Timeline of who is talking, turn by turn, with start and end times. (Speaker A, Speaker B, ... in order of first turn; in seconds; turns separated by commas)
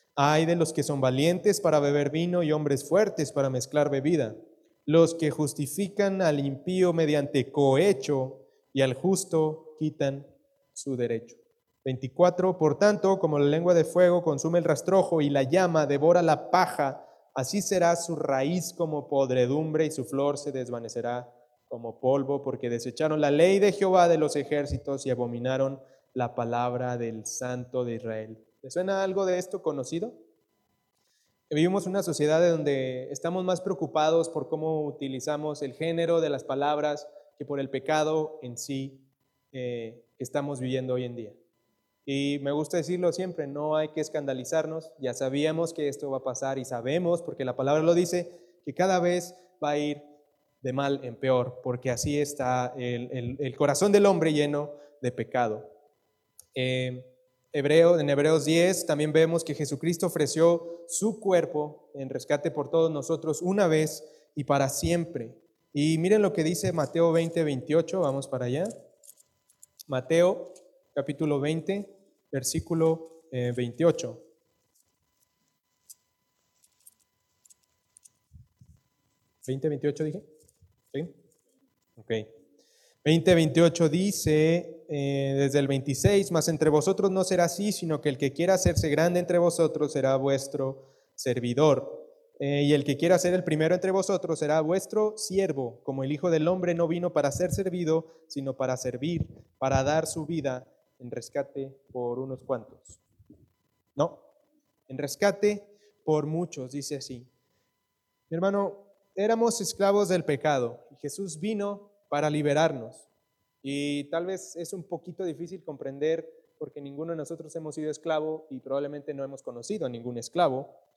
Speaker A: 0.2-30.2, Speaker A: 31.5-41.4, Speaker A: 42.1-50.0, Speaker A: 50.6-55.7, Speaker A: 56.5-68.7, Speaker A: 69.9-74.2, Speaker A: 79.5-80.3, Speaker A: 82.0-82.3, Speaker A: 83.0-103.0, Speaker A: 104.0-104.2, Speaker A: 104.9-107.3, Speaker A: 108.3-113.1, Speaker A: 113.6-120.8